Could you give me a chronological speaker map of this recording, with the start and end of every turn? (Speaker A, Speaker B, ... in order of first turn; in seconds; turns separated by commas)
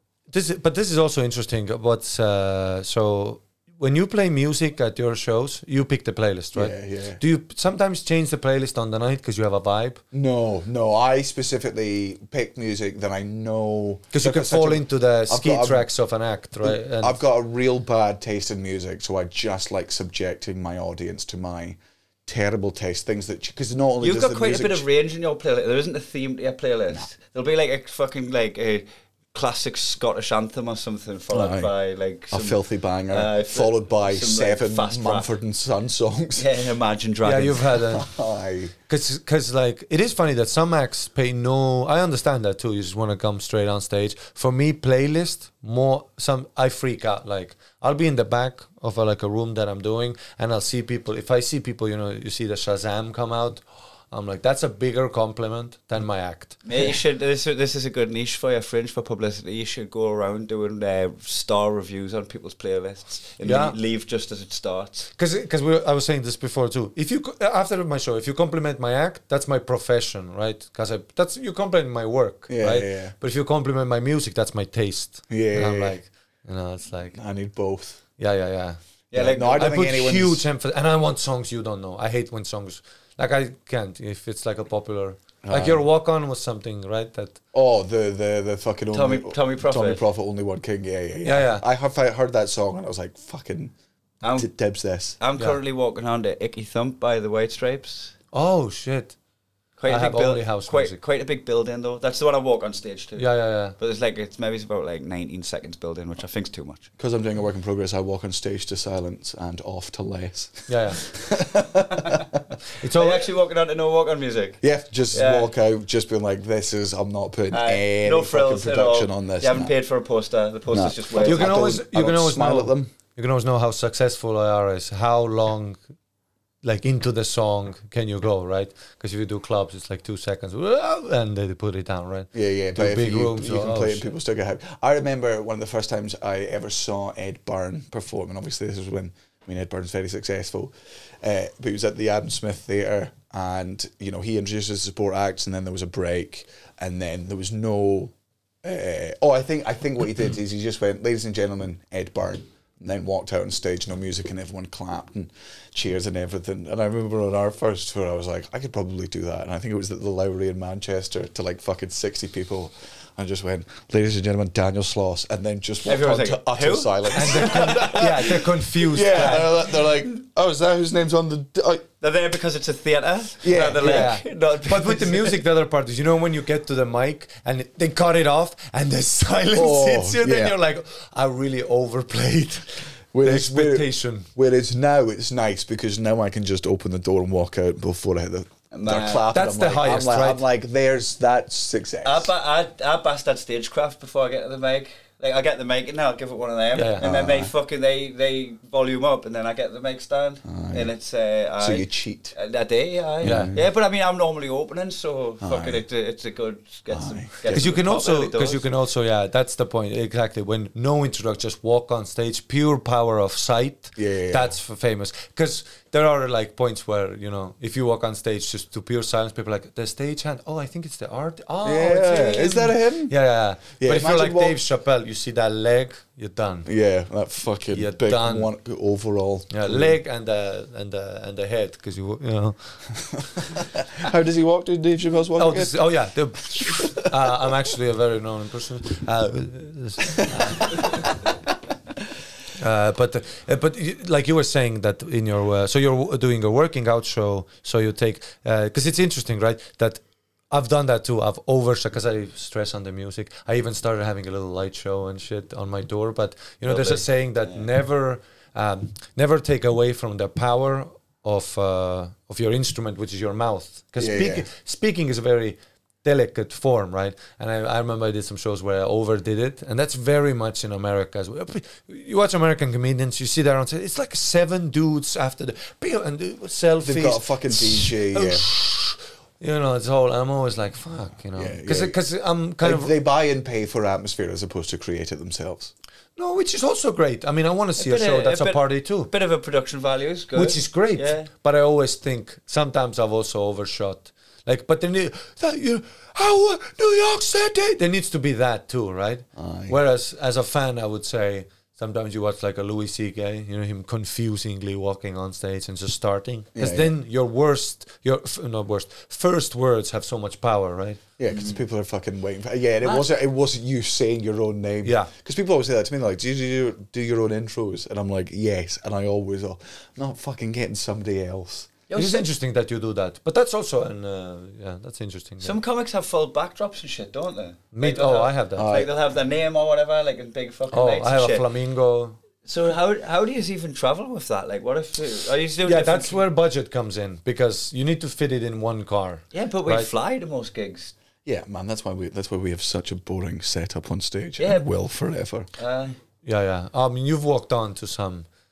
Speaker A: 0.3-10.0, Speaker B: 6.5-7.2, Speaker B: 10.1-15.9, Speaker A: 14.1-17.2, Speaker B: 16.6-24.9, Speaker C: 24.0-35.3, Speaker B: 31.3-31.7, Speaker B: 32.3-36.5, Speaker C: 36.4-37.7, Speaker A: 37.2-38.1, Speaker B: 37.9-38.7, Speaker A: 38.9-56.7, Speaker C: 56.6-65.1, Speaker A: 63.4-63.8, Speaker A: 65.2-77.2, Speaker B: 72.5-73.1, Speaker B: 75.3-76.0, Speaker B: 77.1-78.0, Speaker A: 78.2-78.8, Speaker C: 79.1-79.7, Speaker B: 79.1-80.5, Speaker A: 79.4-87.4, Speaker B: 85.4-85.8, Speaker B: 87.5-93.7, Speaker C: 88.9-90.0, Speaker A: 91.2-91.6, Speaker C: 94.2-94.5, Speaker B: 94.3-95.2, Speaker C: 95.2-98.1, Speaker A: 98.3-99.1, Speaker C: 99.8-106.9, Speaker A: 99.8-101.0, Speaker A: 103.2-103.7, Speaker B: 107.0-112.2, Speaker A: 110.7-111.0, Speaker A: 112.8-113.3, Speaker C: 112.9-114.6, Speaker B: 114.6-119.7, Speaker C: 115.1-115.5, Speaker C: 117.5-121.6, Speaker B: 120.7-122.9, Speaker A: 121.2-125.8, Speaker A: 126.6-134.1, Speaker B: 132.3-171.8, Speaker C: 165.8-167.9, Speaker A: 167.1-169.6, Speaker C: 172.0-175.3, Speaker B: 173.4-174.2, Speaker A: 173.8-184.3, Speaker B: 179.5-180.5, Speaker B: 183.1-192.3, Speaker C: 188.7-189.2, Speaker A: 189.3-190.4, Speaker C: 192.0-208.7, Speaker A: 196.7-197.1, Speaker B: 197.0-197.5, Speaker B: 200.4-200.9, Speaker B: 201.6-202.3, Speaker B: 203.2-203.7, Speaker A: 203.2-203.5, Speaker B: 205.4-205.8, Speaker B: 206.9-207.7, Speaker A: 207.5-226.7, Speaker B: 214.0-214.5, Speaker B: 221.6-223.1, Speaker B: 223.8-224.6, Speaker B: 226.7-230.0, Speaker A: 227.7-228.5, Speaker A: 229.5-233.1, Speaker B: 233.2-235.7, Speaker A: 235.4-241.2, Speaker A: 242.6-282.9, Speaker C: 256.6-257.6, Speaker B: 264.0-264.5, Speaker B: 276.8-278.5, Speaker B: 281.4-282.0, Speaker B: 282.6-285.7, Speaker A: 286.2-289.1, Speaker C: 287.8-291.3, Speaker A: 290.3-311.0, Speaker B: 299.4-299.8, Speaker B: 306.5-306.9, Speaker B: 311.2-321.7, Speaker C: 312.8-313.1, Speaker A: 314.8-315.1, Speaker C: 321.9-322.3, Speaker A: 321.9-325.6, Speaker C: 325.4-331.4, Speaker A: 327.7-328.6, Speaker B: 328.5-328.9, Speaker A: 330.7-332.1, Speaker C: 332.4-336.2, Speaker A: 335.6-339.9, Speaker C: 339.3-340.9, Speaker B: 341.2-345.5, Speaker C: 344.4-344.6, Speaker C: 345.6-346.0, Speaker A: 346.2-348.2